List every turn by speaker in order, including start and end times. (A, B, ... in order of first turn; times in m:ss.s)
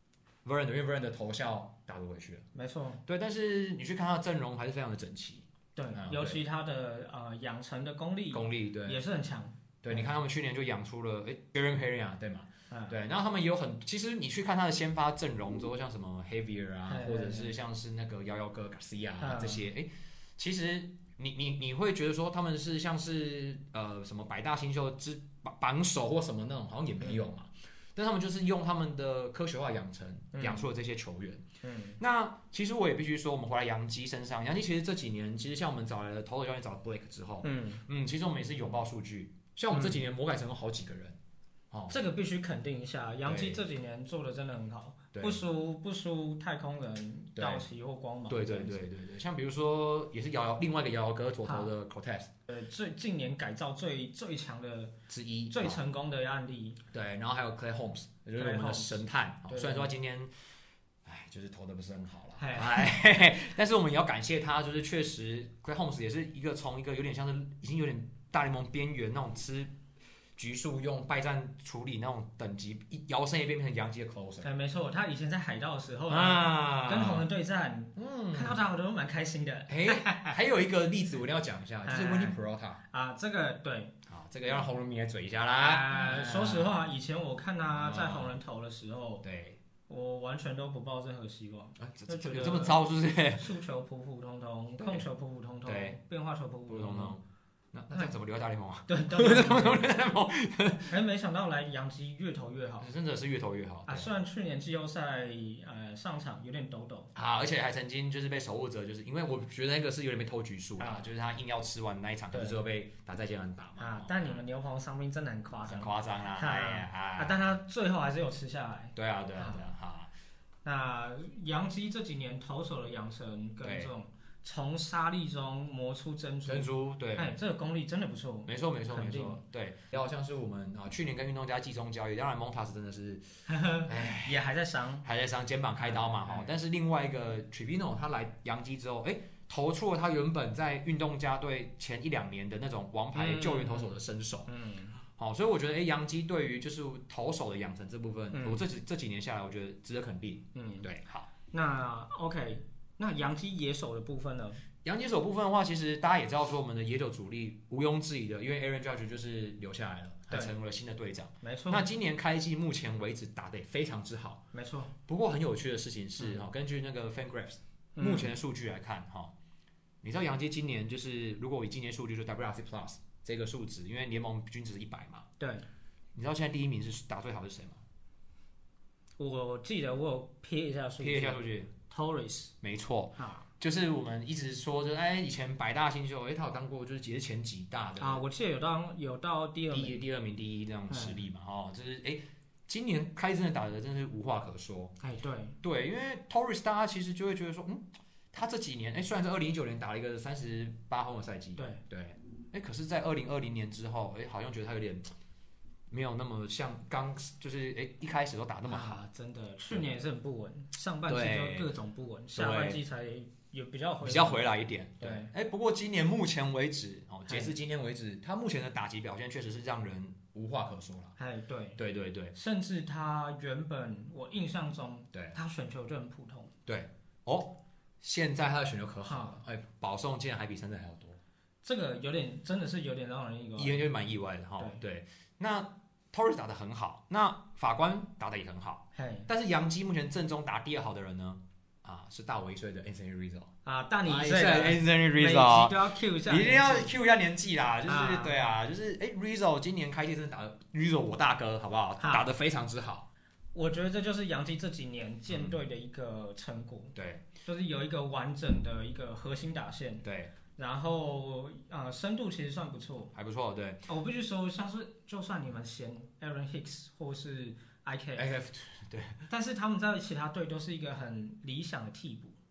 0:00.4-0:02.4 A
0:02.5-0:03.0 B
0:03.0-0:06.4 A
0:05.8-0:10.1 B
0:08.3-0:09.0 A
0:09.8-0:31.5 A
0:12.7-0:13.0 B
0:16.9-0:17.6 B
0:19.2-0:19.7 B
0:30.3-0:30.7 B
0:31.6-0:32.0 B
0:32.0-0:41.2 A
0:37.4-0:37.8 B
0:39.7-0:40.0 B
0:41.7-0:42.0 A
0:41.9-0:48.8 B
0:43.2-0:43.6 A
0:45.1-0:45.4 A
0:47.4-0:47.6 A
0:48.3-0:52.3 A
0:51.4-0:51.7 B
0:52.5-0:55.0 B
0:55.1-0:55.8 A
0:55.5-0:56.8 B
0:56.9-1:00.3 A
0:58.4-0:59.9 B
1:01.0-1:09.8 A
1:02.4-1:02.9 B
1:10.4-1:14.5 A
1:14.4-1:20.4 B
1:16.1-1:17.3 A
1:18.0-1:18.6 A
1:19.7-1:22.8 A
1:21.8-1:22.4 B
1:22.9-1:23.9 B
1:24.1-1:26.8 A
1:25.6-1:29.2 B
1:27.7-1:28.4 A
1:29.2-1:29.6 A
1:29.9-1:32.8 B
1:31.8-1:33.5 A
1:33.4-1:37.2 B
1:34.8-1:35.1 A
1:35.7-1:36.0 A
1:36.7-1:37.2 A
1:37.7-1:40.9 A
1:38.9-1:39.9 B
1:40.9-1:42.9 B
1:42.8-1:44.1 A
1:43.9-1:47.1 B
1:47.2-1:54.4 A
1:50.8-1:51.1 B
1:53.8-1:59.6 B
1:55.7-1:57.5 A
1:59.0-2:00.1 A
2:00.6-2:09.4 B
2:03.6-2:03.9 A
2:06.5-2:07.3 A
2:08.5-2:13.2 A
2:13.5-2:15.1 B
2:13.8-2:14.4 A
2:15.0-2:24.5 A
2:15.8-2:16.5 B
2:23.1-2:24.0 B
2:24.5-2:25.0 B
2:25.2-2:31.3 A
2:28.3-2:28.6 B
2:30.6-2:30.9 B
2:31.5-2:34.6 B
2:34.8-2:44.4 A
2:41.4-2:41.9 B
2:44.5-2:44.9 B
2:45.1-2:49.4 A
2:48.0-2:48.3 B
2:50.0-2:55.3 A
2:55.4-2:55.7 B
2:56.2-2:57.8 A
2:59.2-3:02.5 B
3:01.0-3:01.7 A
3:02.6-3:08.2 A
3:03.2-3:03.5 B
3:08.0-3:10.0 B
3:09.7-3:15.0 A
3:10.9-3:11.2 B
3:15.0-3:15.6 B
3:15.6-3:25.1 A
3:25.9-3:29.0 A
3:28.7-3:34.5 B
3:31.1-3:31.7 A
3:32.4-3:32.8 A
3:34.0-3:41.2 A
3:35.0-3:35.3 B
3:37.3-3:37.5 B
3:41.2-3:41.8 B
3:41.8-3:42.3 A
3:42.3-3:46.5 B
3:46.7-3:51.2 A
3:49.1-3:49.4 B
3:51.6-3:53.8 B
3:53.6-4:03.5 A
3:58.9-3:59.3 B
4:03.6-4:06.9 B
4:04.1-4:13.1 A
4:07.9-4:08.4 B
4:12.0-4:12.3 B
4:13.5-4:23.1 B
4:15.3-4:15.6 A
4:17.0-4:17.3 A
4:20.0-4:20.3 A
4:23.1-4:23.8 A
4:23.9-4:28.3 B
4:28.2-4:29.2 A
4:29.3-4:32.4 B